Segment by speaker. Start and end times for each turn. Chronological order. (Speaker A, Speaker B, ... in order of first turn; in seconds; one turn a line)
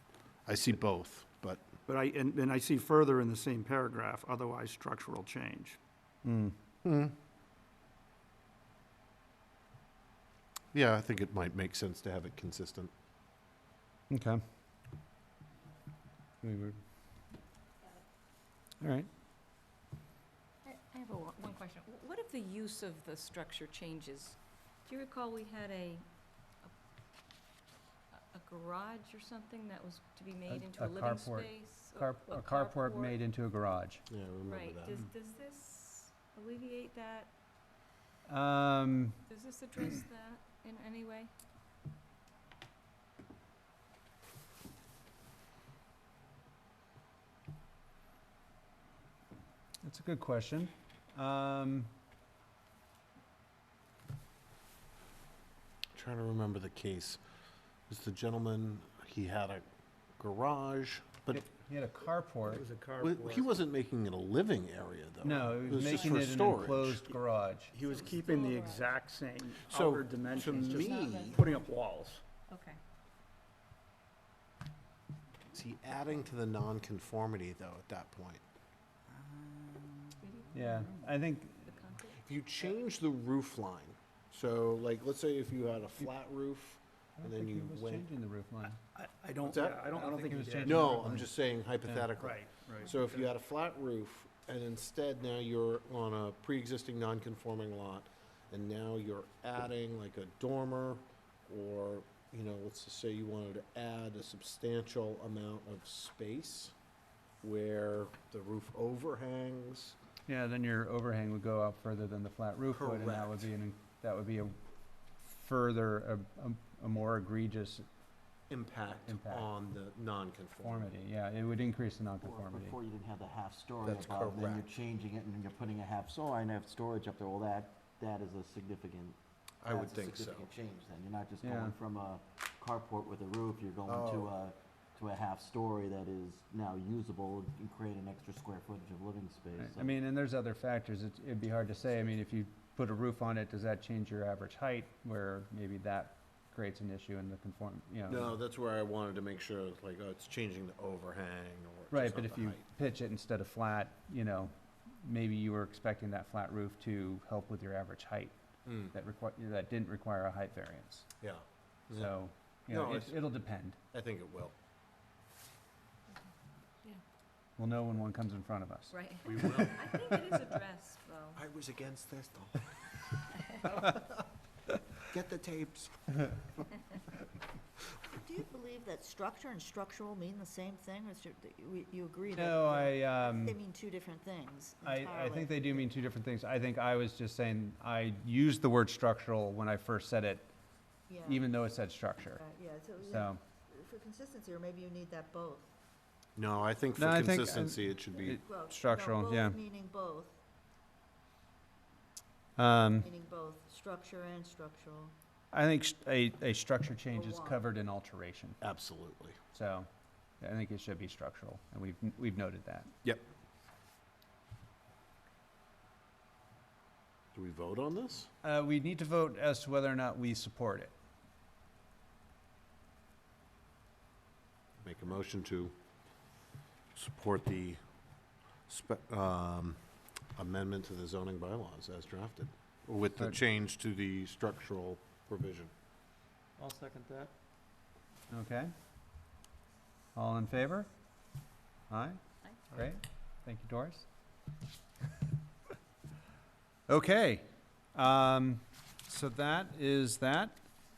Speaker A: 0.5-1.6
Speaker B: 1.9-5.8
Speaker C: 6.2-6.5
Speaker A: 6.8-7.1
Speaker A: 10.7-12.9
Speaker C: 14.1-14.4
Speaker C: 16.4-16.8
Speaker C: 18.8-19.1
Speaker D: 20.6-26.1
Speaker D: 28.1-33.2
Speaker C: 30.5-34.0
Speaker A: 34.1-35.0
Speaker D: 34.4-37.3
Speaker C: 38.3-39.2
Speaker D: 39.3-41.3
Speaker C: 49.8-51.9
Speaker A: 56.0-57.2
Speaker A: 57.9-59.6
Speaker A: 60.2-61.4
Speaker C: 61.3-62.6
Speaker B: 62.5-63.5
Speaker A: 63.0-67.0
Speaker C: 65.2-67.7
Speaker B: 67.7-72.2
Speaker D: 67.8-68.9
Speaker A: 69.7-71.4
Speaker D: 70.3-71.7
Speaker D: 72.5-72.8
Speaker A: 75.5-78.4
Speaker C: 79.1-81.7
Speaker D: 80.2-81.1
Speaker D: 81.7-82.2
Speaker A: 82.2-88.1
Speaker C: 87.2-88.8
Speaker B: 88.9-91.0
Speaker A: 89.4-89.9
Speaker C: 89.8-91.3
Speaker A: 90.6-106.7
Speaker C: 91.8-92.1
Speaker B: 92.2-93.3
Speaker A: 107.4-110.0
Speaker C: 110.3-114.6
Speaker A: 112.7-113.5
Speaker C: 115.2-117.8
Speaker A: 118.5-120.9
Speaker C: 119.0-119.5
Speaker C: 120.6-122.8
Speaker E: 122.2-140.0
Speaker A: 123.8-124.7
Speaker A: 129.6-130.5
Speaker C: 131.4-131.7
Speaker A: 133.9-134.3
Speaker C: 139.6-148.4
Speaker A: 148.1-152.6
Speaker C: 151.9-158.4
Speaker A: 158.7-158.9
Speaker C: 158.9-161.1
Speaker A: 161.2-162.1
Speaker C: 161.9-163.8
Speaker A: 162.7-163.2
Speaker A: 163.9-164.6
Speaker C: 167.6-169.0
Speaker D: 168.9-171.4
Speaker A: 169.2-170.0
Speaker E: 171.6-171.9
Speaker E: 175.2-175.8
Speaker F: 178.2-186.0
Speaker C: 182.3-183.6
Speaker C: 184.8-190.5
Speaker F: 191.1-191.5
Speaker C: 191.2-192.4
Speaker F: 192.3-195.7
Speaker C: 193.0-193.4
Speaker A: 196.4-198.4
Speaker C: 197.0-199.6
Speaker F: 198.4-200.4
Speaker C: 202.6-203.1
Speaker F: 202.9-205.1
Speaker C: 205.5-208.6
Speaker F: 207.1-207.6
Speaker A: 208.6-209.4
Speaker C: 209.5-209.9
Speaker C: 210.4-212.9
Speaker A: 217.3-218.3
Speaker C: 218.4-220.9
Speaker A: 224.8-225.7
Speaker A: 226.9-227.8
Speaker A: 228.7-229.8
Speaker A: 230.3-235.7
Speaker E: 236.6-237.3
Speaker C: 238.3-238.7
Speaker C: 240.2-240.9
Speaker C: 241.9-242.2
Speaker C: 242.7-244.1
Speaker C: 246.9-250.6